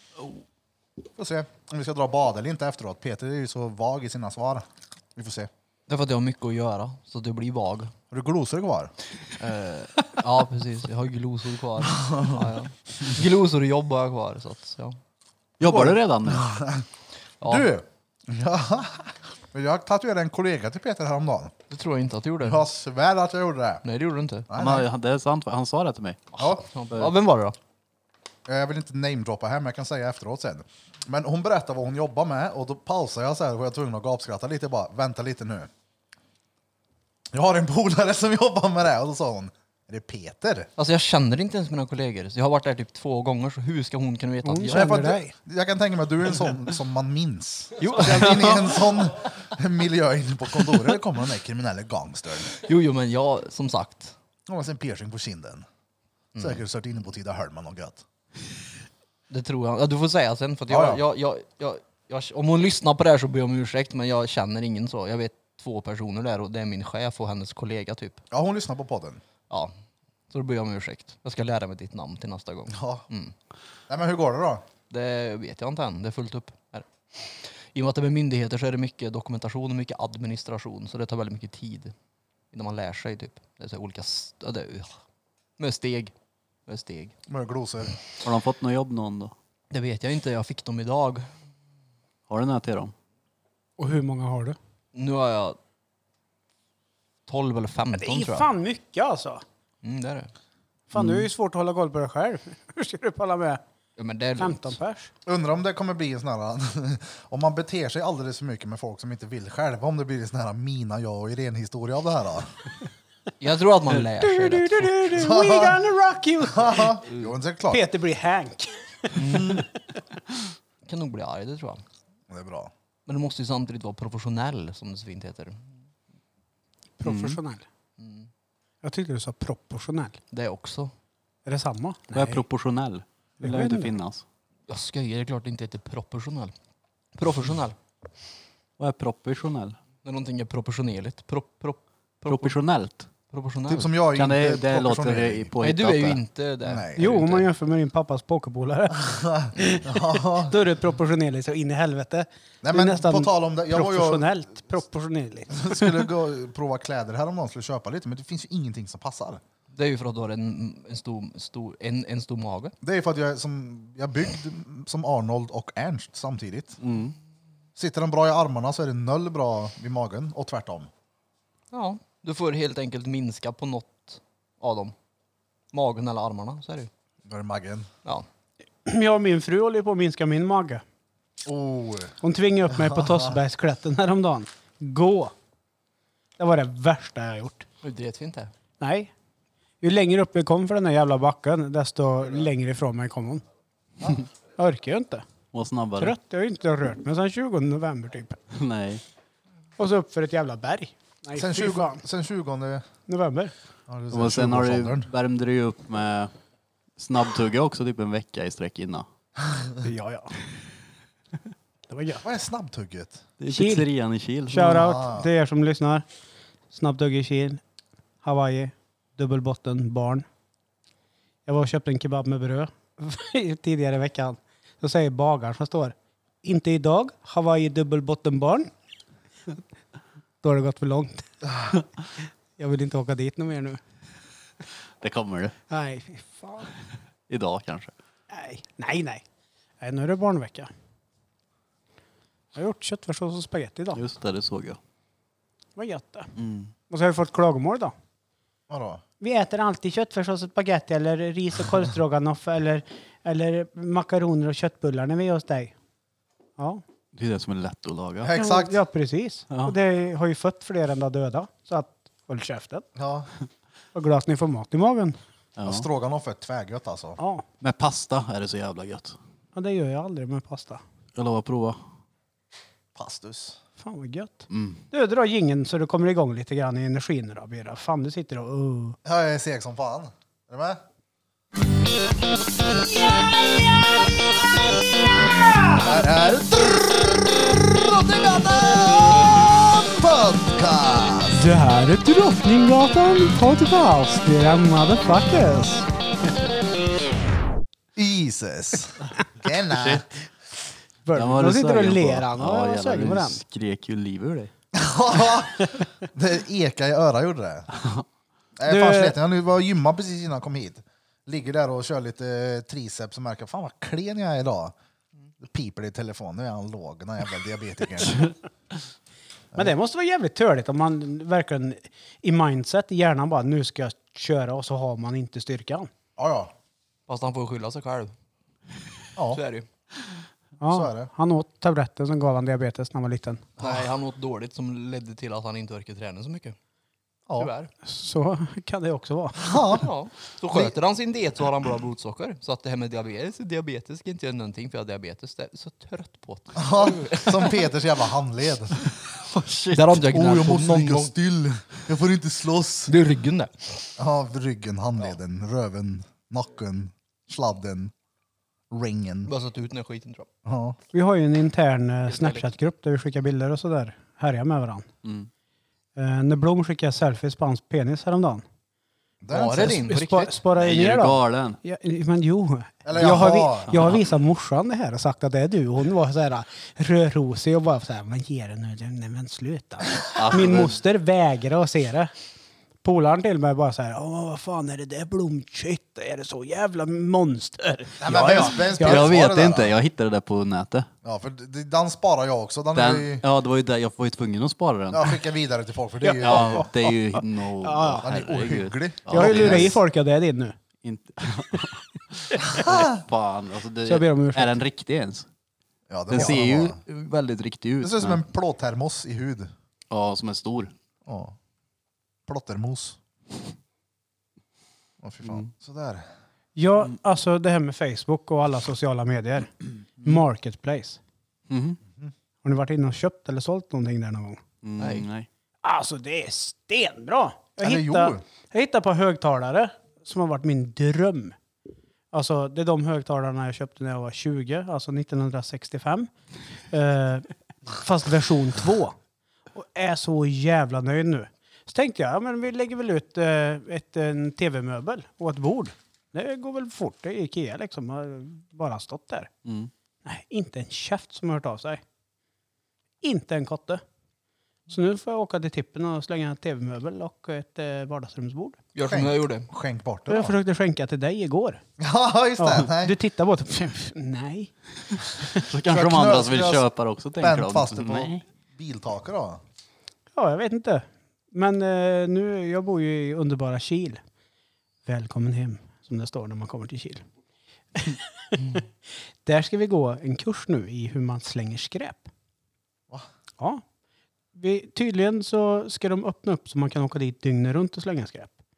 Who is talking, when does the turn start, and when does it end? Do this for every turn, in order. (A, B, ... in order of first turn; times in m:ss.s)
0:01.2-0:05.5 A
0:05.9-0:07.9 B
0:08.1-0:08.9 A
0:09.4-0:15.0 B
0:11.8-0:12.4 A
0:15.6-0:16.5 C
0:15.6-0:16.8 A
0:17.4-0:17.7 B
0:17.4-0:21.5 A
0:21.7-0:22.6 B
0:22.4-0:23.8 A
0:23.8-0:24.5 B
0:24.5-0:24.9 A
0:24.6-0:26.3 C
0:26.3-0:27.6 B
0:28.4-0:35.7 A
0:37.3-0:40.7 A
0:40.8-0:44.9 B
0:44.4-0:45.3 D
0:44.7-0:52.6 A
0:47.8-0:49.3 B
0:52.6-0:54.1 B
0:54.4-0:55.6 A
0:56.3-0:56.6 B
0:56.4-0:58.0 A
0:59.3-1:08.2 B
1:00.7-1:01.0 A
1:08.3-1:09.2 A
1:10.3-1:13.3 B
1:12.7-1:13.0 A
1:13.9-1:14.6 A
1:14.9-1:16.9 B
1:17.4-1:21.9 B
1:22.5-1:24.9 B
1:25.6-1:26.1 B
1:26.7-1:27.1 B
1:27.3-1:27.9 A
1:28.2-1:29.3 C
1:29.7-1:31.3 B
1:32.3-1:32.9 C
1:33.8-1:34.6 D
1:34.9-1:35.6 B
1:37.3-1:38.5 B
1:37.9-1:39.4 D
1:39.8-1:40.3 B
1:40.9-1:43.6 D
1:40.9-1:41.3 C
1:44.0-1:44.8 B
1:44.4-1:45.1 D
1:45.2-1:52.5 A
1:53.4-1:55.1 B
1:54.2-1:57.0 D
1:55.1-1:55.8 A
1:56.4-1:57.8 A
1:57.7-1:59.6 D
1:59.2-1:59.6 B
2:00.8-2:01.8 B
2:02.3-2:02.7 A
2:03.0-2:05.7 B
2:07.0-2:07.6 D
2:07.0-2:07.4 C
2:08.0-2:08.3 B
2:08.8-2:10.2 D
2:10.3-2:10.9 B
2:11.4-2:12.4 D
2:12.1-2:14.2 C
2:13.4-2:13.9 D
2:14.7-2:16.5 B
2:17.2-2:17.8 B
2:18.8-2:19.8 C
2:20.0-2:22.6 B
2:22.2-2:23.1 C
2:23.3-2:23.9 B
2:23.7-2:25.5 A
2:24.1-2:26.2 C
2:25.6-2:27.4 B
2:26.6-2:27.1 A
2:26.9-2:36.0 D
2:29.0-2:30.5 A
2:32.6-2:34.3 A
2:35.5-2:39.4 A
2:39.7-2:42.7 B
2:42.8-2:46.8 A
2:46.8-2:47.1 C
2:47.8-2:50.9 A
2:51.7-2:54.9 B
2:55.7-2:56.9 B
2:57.2-2:57.9 A
2:58.8-3:00.8 D
3:01.4-3:02.2 A
3:02.2-3:05.3 D
3:02.7-3:03.4 A
3:06.4-3:07.6 D
3:07.8-3:08.5 B
3:08.8-3:09.1 D
3:09.8-3:13.4 D
3:14.6-3:15.3 D
3:15.5-3:16.1 C
3:16.0-3:18.4 D
3:18.5-3:19.0 C
3:19.8-3:22.0 D
3:21.3-3:22.9 A
3:23.1-3:23.5 D
3:23.9-3:25.1 A
3:24.1-3:26.3 C
3:27.0-3:29.0 C
3:29.8-3:30.6 D
3:31.9-3:32.2 D
3:32.2-3:33.2 A
3:33.4-3:34.8 C
3:33.5-3:33.8 D
3:34.5-3:36.0 D
3:34.6-3:35.3 A
3:36.7-3:37.6 D
3:38.2-3:40.2 D
3:41.4-3:48.7 D
3:50.4-3:51.8 D
3:52.6-3:53.8 D
3:55.0-3:55.6 C
3:55.7-3:56.7 D
3:57.3-3:57.9 C
3:58.3-3:59.2 D
3:59.8-4:00.7 D
4:02.5-4:04.0 D
4:03.9-4:04.8 C
4:05.8-4:06.3 D
4:06.4-4:06.7 C
4:06.9-4:07.9 D
4:08.7-4:09.0 A
4:09.2-4:15.7 D
4:16.6-4:16.8 D
4:17.1-4:18.3 C
4:18.2-4:18.8 A
4:18.3-4:22.8 D
4:19.5-4:19.8 C
4:23.0-4:23.3 A
4:23.9-4:25.2 D
4:25.6-4:25.9 C
4:25.6-4:27.2 A
4:27.2-4:27.4 D
4:27.6-4:29.2 C
4:29.5-4:30.8 D
4:31.1-4:31.8 C
4:32.9-4:33.6 A
4:33.8-4:39.0 D
4:34.5-4:34.8 C
4:39.0-4:40.8 A
4:45.7-4:51.4 A
4:51.3-4:55.8 D
4:58.0-5:00.0 A
4:59.7-5:00.0 C
5:01.0-5:03.4 D
5:01.1-5:04.5 C
5:04.7-5:07.7 A
5:07.8-5:08.0 C
5:08.6-5:14.7 A
5:08.6-5:09.2 D
5:15.4-5:18.3 A
5:19.6-5:25.9 D
5:26.2-5:26.5 A
5:27.1-5:28.1 B
5:29.2-5:29.4 A
5:29.3-5:29.7 B
5:30.6-5:33.4 D
5:30.7-5:31.1 A
5:33.6-5:36.6 B
5:37.4-5:37.7 B
5:37.8-5:39.4 D
5:39.4-5:39.8 A
5:39.5-5:47.6 B
5:46.6-5:48.8 A
5:49.2-5:50.0 C
5:49.7-5:51.1 B
5:50.0-5:52.9 A
5:52.9-5:53.8 B
5:54.0-5:57.9 A
5:58.7-5:59.3 A
5:59.2-6:00.3 B
6:00.4-6:00.8 A
6:00.9-6:04.9 D
6:02.1-6:02.5 B
6:05.0-6:05.3 C
6:06.0-6:08.4 D
6:09.2-6:09.8 A
6:09.3-6:10.4 B
6:09.6-6:22.1 D
6:10.5-6:11.6 C
6:12.8-6:13.9 A
6:20.1-6:20.8 C
6:22.8-6:29.1 D
6:28.0-6:29.8 A
6:28.1-6:30.9 C
6:31.0-6:33.2 A
6:32.7-6:35.1 C
6:34.9-6:36.7 A
6:36.0-6:38.1 D
6:36.2-6:39.8 C
6:38.0-6:39.8 A
6:39.1-6:40.6 D
6:40.8-6:45.3 C
6:42.5-6:43.0 A
6:43.8-6:44.6 D
6:45.9-6:46.8 A
6:46.1-6:48.2 C
6:47.8-6:49.5 A
6:49.9-6:50.7 C
6:51.0-6:51.4 A
6:52.3-6:53.0 A
6:55.0-6:56.1 A
6:55.2-6:55.5 C
6:56.6-7:01.0 D
7:01.5-7:01.8 C
7:02.4-7:04.4 D
7:04.6-7:05.3 C
7:04.8-7:05.0 B
7:05.6-7:11.4 D
7:07.6-7:08.2 A
7:12.1-7:16.1 D
7:16.7-7:19.0 D
7:19.5-7:29.3 D
7:29.4-7:29.7 C
7:30.0-7:31.8 D
7:33.0-7:33.8 D
7:34.7-7:38.6 D
7:38.7-7:39.5 B
7:38.8-7:40.4 A
7:40.1-7:41.6 D
7:41.8-7:43.0 A
7:42.4-7:45.2 D
7:45.4-7:48.2 C
7:45.7-7:46.7 A
7:47.2-7:49.4 A
7:50.1-7:54.0 D
7:54.8-7:57.0 D
7:57.7-7:58.6 D
7:59.2-8:02.1 D
8:04.3-8:08.3 D